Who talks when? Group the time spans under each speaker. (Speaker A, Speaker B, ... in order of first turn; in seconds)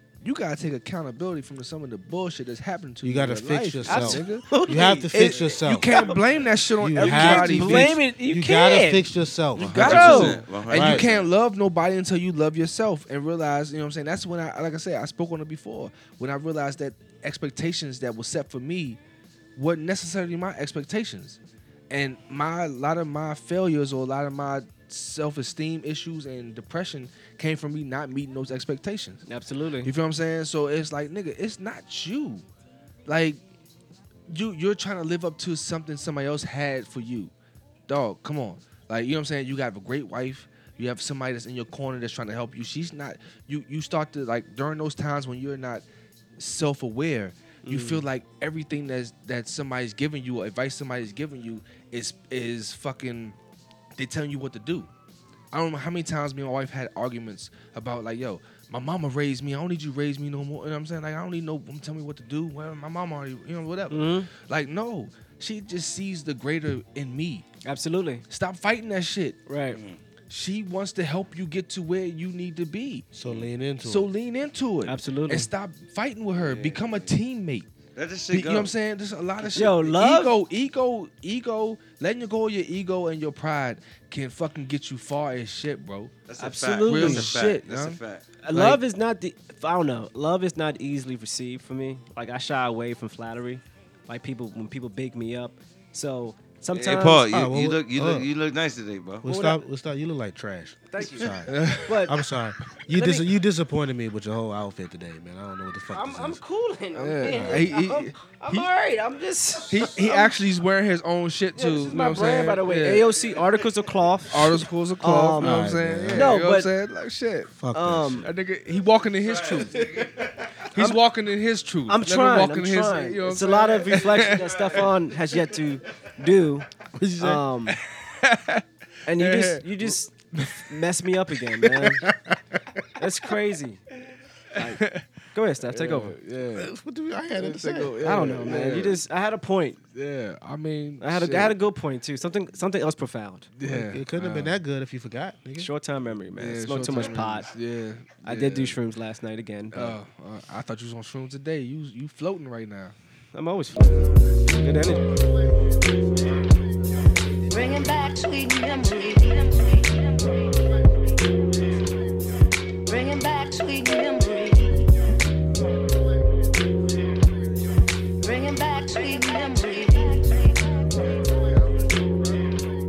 Speaker A: 0.2-4.5, 5.1-8.0, 9.5-19.0, 19.5-21.4, 21.9-29.2, 29.8-32.4, 33.0-33.4, 34.3-37.3, 37.9-45.8, 46.4-53.4, 54.0-54.9, 55.5-67.5, 68.3-69.4, 70.3-73.1, 73.8-77.7, 78.3-86.1, 86.9-88.8, 101.5-102.0, 106.9-108.7, 109.7-113.1, 114.3-117.5, 118.2-124.9, 127.7-130.7, 131.6-132.1, 134.6-135.0, 135.7-136.7, 137.4-139.0, 139.9-141.5, 143.6-144.5, 146.4-148.7, 149.7-152.9, 153.8-154.6
Speaker B: 3.0-5.9, 6.8-10.2, 10.7-11.0, 73.1-74.1, 97.3-98.3, 99.2-106.4, 107.3-107.6, 115.4-116.4, 117.5-118.2, 126.9-127.4, 136.5-138.0, 143.6-145.7
Speaker C: 3.9-6.2, 6.9-9.1, 9.8-10.4, 29.2-29.9, 47.6-48.0, 63.9-64.3, 67.6-68.2, 69.5-69.8, 74.8-75.5, 79.5-80.3, 86.4-87.4, 88.4-97.3, 99.2-99.6, 100.9-102.2, 102.9-103.3, 105.9-110.3, 111.5-115.6, 116.1-116.7, 117.7-118.2, 121.9-127.8, 129.1-132.0, 133.0-133.8, 134.5-134.8, 135.3-136.1, 138.0-139.8, 141.0-143.5, 145.6-147.5, 148.2-149.9, 153.3-155.1
Speaker D: 9.6-11.3, 69.7-70.0, 73.2-73.5, 76.3-77.1, 77.9-78.7, 86.2-88.3, 96.7-99.2, 119.2-120.6, 123.9-125.9
Speaker E: 157.5-160.6, 162.8-164.9, 168.2-171.2